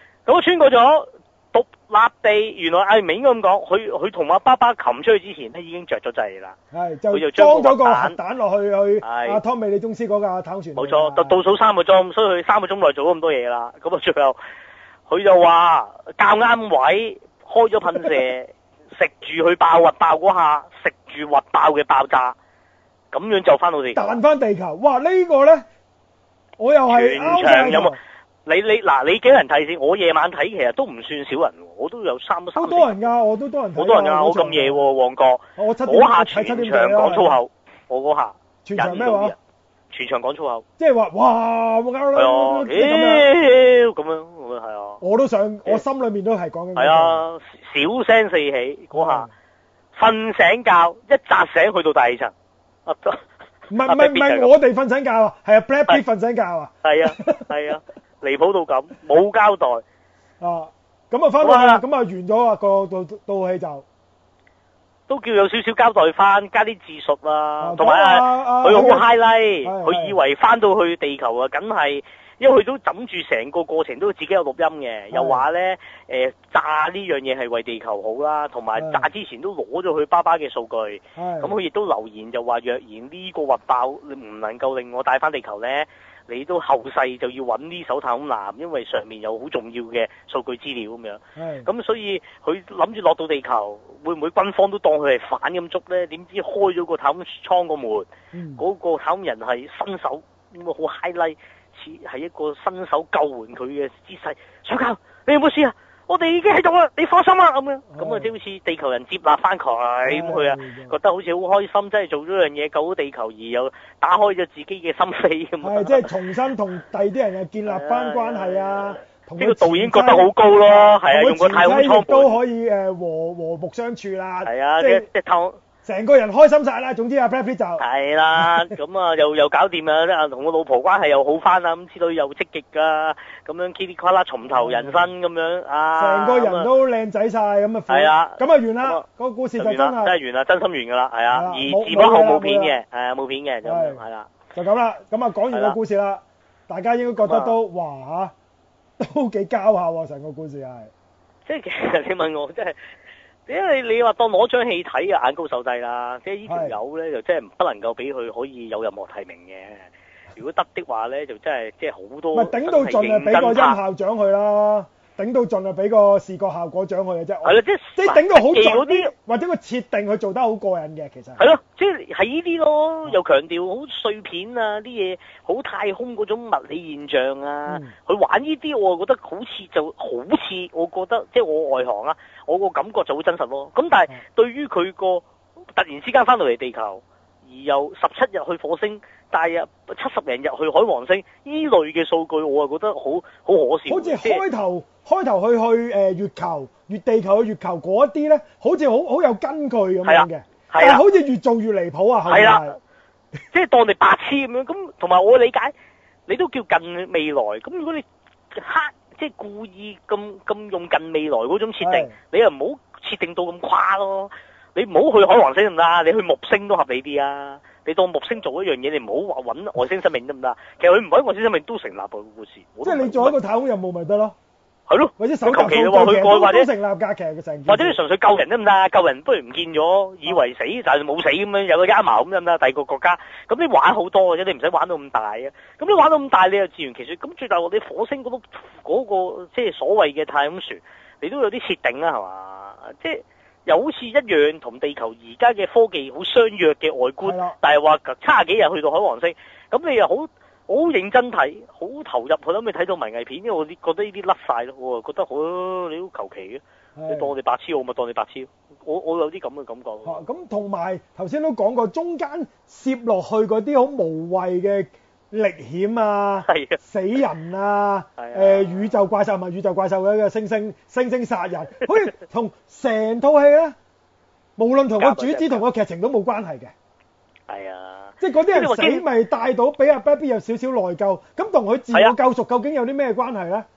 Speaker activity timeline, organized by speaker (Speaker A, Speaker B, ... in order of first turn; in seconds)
Speaker A: 0.3-6.6, 7.1-8.2, 9.0-9.4, 10.8-14.4, 15.1-22.4, 23.1-24.2, 26.9-33.0, 33.8-39.4, 39.9-40.6, 42.2-45.0, 46.8-49.3, 50.0-52.3, 52.9-53.2, 53.8-54.5, 56.8-59.8, 61.4-61.8, 65.1-116.1, 117.7-122.4, 124.4-125.6, 127.8-136.7, 137.9-139.1, 139.6-144.3, 145.5-145.8, 147.2-147.6, 151.5-152.8, 153.5-163.8, 167.4-169.1, 171.4-185.2, 185.8-194.4, 200.1-201.0, 202.3-202.8, 203.5-205.7, 206.3-223.4, 224.9-226.7, 227.7-260.2, 266.4-266.8, 268.2-268.9, 275.0-275.6, 277.5-279.0
Speaker B: 6.7-11.4, 23.9-25.6, 26.6-28.0, 32.6-34.9, 35.6-37.4, 38.6-39.4, 40.8-43.3, 45.0-47.2, 48.9-49.3, 53.7-57.5, 60.4-63.9, 67.6-69.1, 69.6-70.2, 75.1-75.4, 78.8-79.1, 81.2-81.5, 91.4-91.7, 98.3-98.6, 107.9-108.3, 110.1-110.9, 115.6-120.3, 121.1-125.1, 125.8-127.8, 134.5-135.1, 136.0-140.2, 141.3-142.7, 143.7-144.0, 144.6-148.3, 149.0-150.9, 156.5-156.8, 162.3-171.4, 177.7-177.9, 193.9-202.7, 211.8-212.1, 222.8-224.4, 225.2-228.0, 247.2-247.6, 257.0-257.3, 260.1-273.8, 274.6-276.7, 278.2-283.7